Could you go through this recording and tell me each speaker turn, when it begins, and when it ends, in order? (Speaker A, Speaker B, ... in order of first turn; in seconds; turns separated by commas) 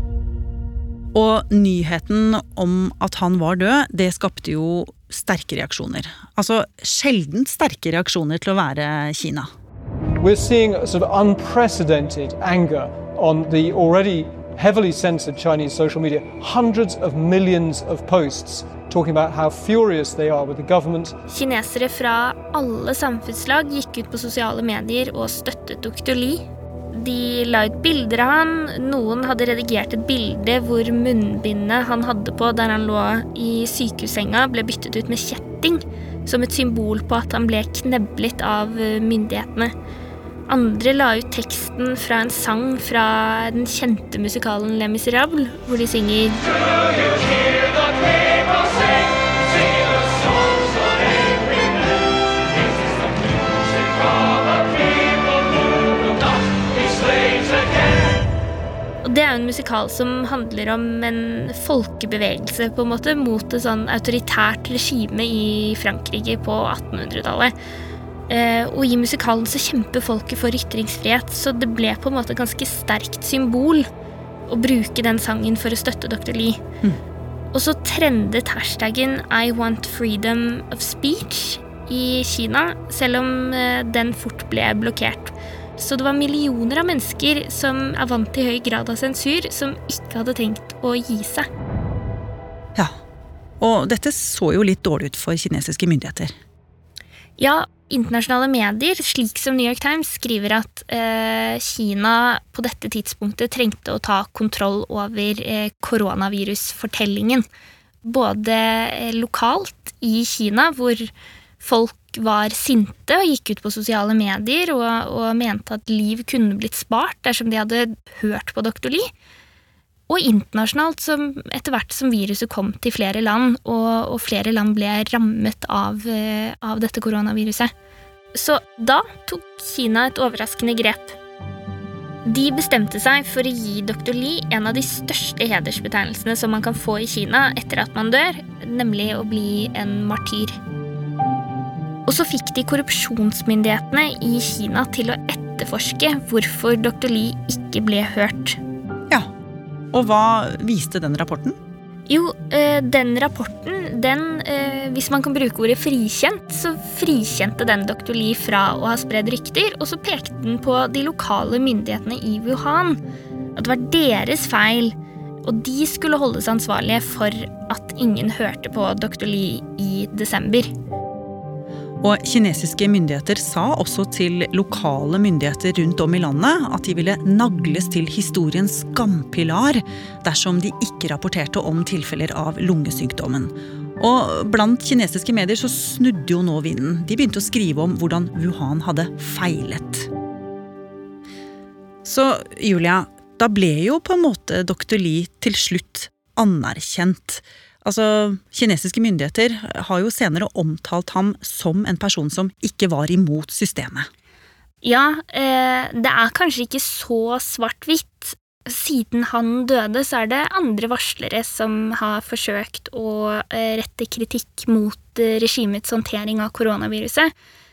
Speaker A: 1.1-9.5, Speaker B: 10.2-21.1, Speaker C: 21.3-39.7, Speaker C: 40.5-46.5, Speaker C: 59.0-67.5, Speaker C: 68.3-73.9, Speaker C: 74.5-76.6, Speaker C: 77.5-91.5, Speaker A: 93.6-96.3, Speaker C: 97.4-107.4, Speaker C: 108.0-119.1, Speaker C: 120.1-127.7, Speaker C: 128.3-131.2, Speaker C: 132.2-140.6, Speaker C: 142.1-148.6, Speaker A: 149.9-151.6, Speaker C: 152.1-163.0, Speaker C: 163.6-170.7, Speaker A: 172.0-190.1, Speaker A: 192.0-204.1, Speaker C: 204.8-217.3